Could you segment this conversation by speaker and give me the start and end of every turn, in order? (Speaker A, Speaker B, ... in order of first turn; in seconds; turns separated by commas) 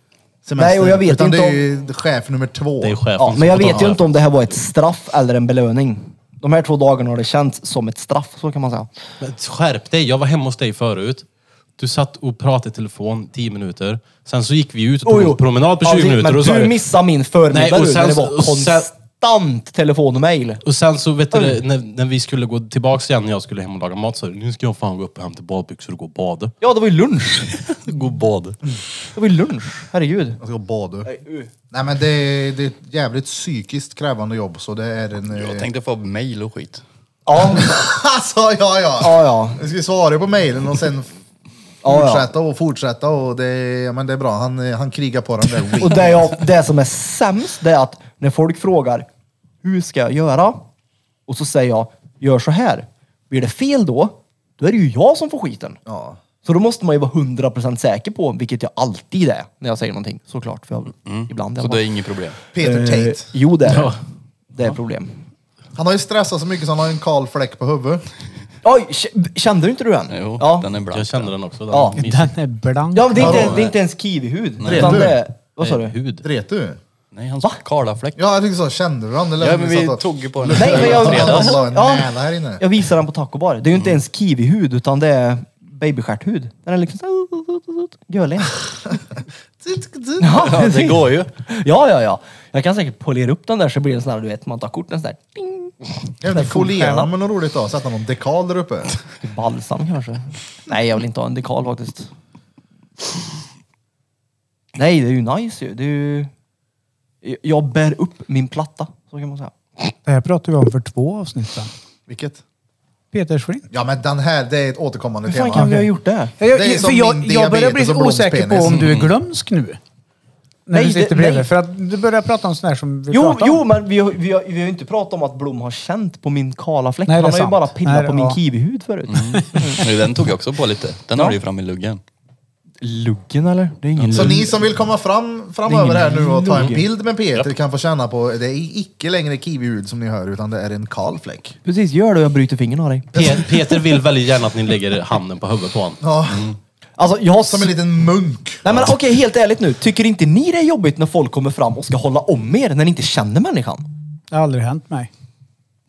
Speaker A: 0.4-3.0, Speaker B: 0.6-1.6, Speaker C: 2.8-4.2, Speaker B: 3.2-8.9, Speaker C: 9.2-11.2, Speaker C: 11.8-16.8, Speaker B: 15.0-20.6, Speaker C: 17.5-18.9, Speaker C: 20.6-26.5, Speaker B: 21.3-21.6, Speaker B: 26.6-27.5, Speaker D: 27.7-28.6, Speaker B: 29.1-30.4, Speaker A: 30.4-31.1, Speaker B: 31.0-31.5, Speaker A: 31.7-35.7, Speaker D: 35.3-36.8, Speaker B: 37.2-37.8, Speaker A: 37.5-41.1, Speaker B: 39.0-39.6, Speaker B: 41.8-42.3, Speaker A: 41.8-46.4, Speaker B: 45.8-49.1, Speaker B: 49.6-50.6, Speaker B: 51.3-55.8, Speaker A: 55.9-56.2, Speaker B: 56.4-61.8, Speaker D: 61.0-62.4, Speaker A: 62.5-63.3, Speaker B: 62.5-64.0, Speaker C: 63.7-64.0, Speaker B: 64.5-65.2, Speaker A: 65.7-68.0, Speaker B: 68.6-70.7, Speaker D: 70.1-71.3, Speaker C: 70.9-72.3, Speaker B: 71.7-72.0, Speaker E: 72.0-73.5, Speaker B: 72.9-76.0, Speaker A: 73.2-73.6, Speaker D: 73.2-73.7, Speaker D: 74.6-75.0, Speaker A: 74.6-75.2, Speaker C: 74.7-76.2, Speaker A: 76.2-76.8, Speaker D: 77.1-78.2, Speaker A: 78.2-82.6, Speaker D: 79.4-81.6, Speaker B: 80.5-88.7, Speaker A: 89.6-90.3, Speaker B: 90.2-97.1, Speaker D: 90.3-91.3, Speaker A: 96.2-99.0, Speaker B: 99.2-102.1, Speaker B: 104.7-106.3, Speaker B: 107.2-109.5, Speaker E: 110.0-111.7, Speaker A: 112.1-112.4, Speaker E: 113.1-113.7, Speaker A: 113.7-115.8, Speaker B: 115.3-116.3, Speaker E: 115.5-119.8, Speaker A: 116.5-118.9, Speaker D: 118.7-119.1, Speaker E: 120.7-123.6, Speaker B: 120.7-121.5, Speaker B: 123.1-129.9, Speaker E: 127.0-128.4, Speaker D: 129.1-132.0, Speaker B: 132.8-134.6, Speaker C: 134.0-134.4, Speaker D: 134.0-134.2, Speaker A: 134.1-141.6, Speaker B: 135.7-136.8, Speaker B: 141.6-143.5, Speaker C: 143.1-146.0, Speaker A: 146.0-146.5, Speaker B: 147.0-147.7, Speaker A: 147.4-148.9, Speaker B: 148.6-153.9, Speaker E: 154.3-155.1